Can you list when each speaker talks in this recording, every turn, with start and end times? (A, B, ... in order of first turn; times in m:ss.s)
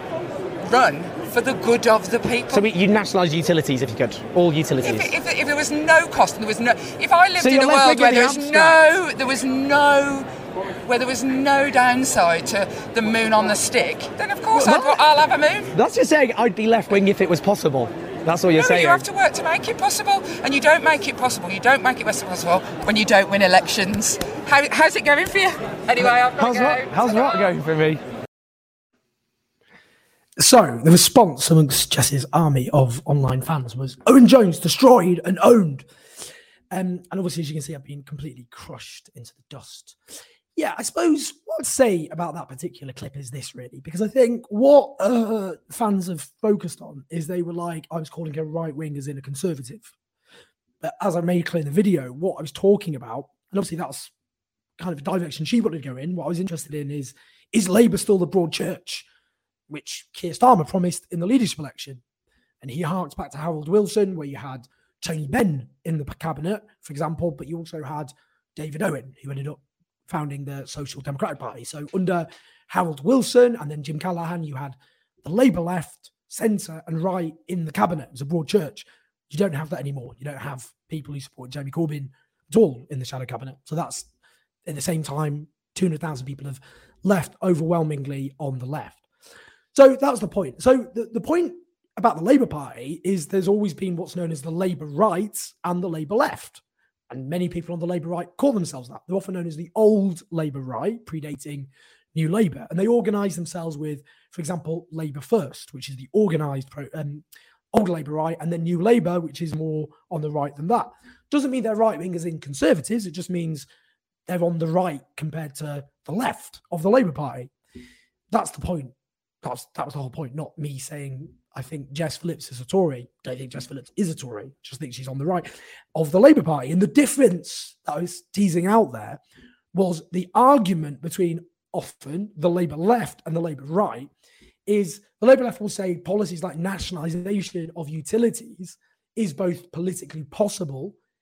0:00.6-0:02.7 A
0:02.5-0:05.1 B
0:04.8-0:10.3 A
0:07.4-0:08.8 B
0:10.8-0:15.7 A
0:14.5-0:15.0 B
0:15.7-0:19.0 B
0:18.5-0:27.5 A
0:26.0-0:28.0 B
0:30.4-0:35.8 C
0:36.7-0:40.0 C
0:40.6-0:49.9 C
0:50.8-0:54.1 C
0:54.8-0:59.1 C
0:59.7-1:02.0 C
1:02.6-1:24.1 C
1:24.6-1:29.0 C
1:29.7-1:53.7 C
1:54.3-1:57.5 C
1:58.3-2:09.2 C
2:09.7-2:14.1 C
2:14.7-2:21.0 C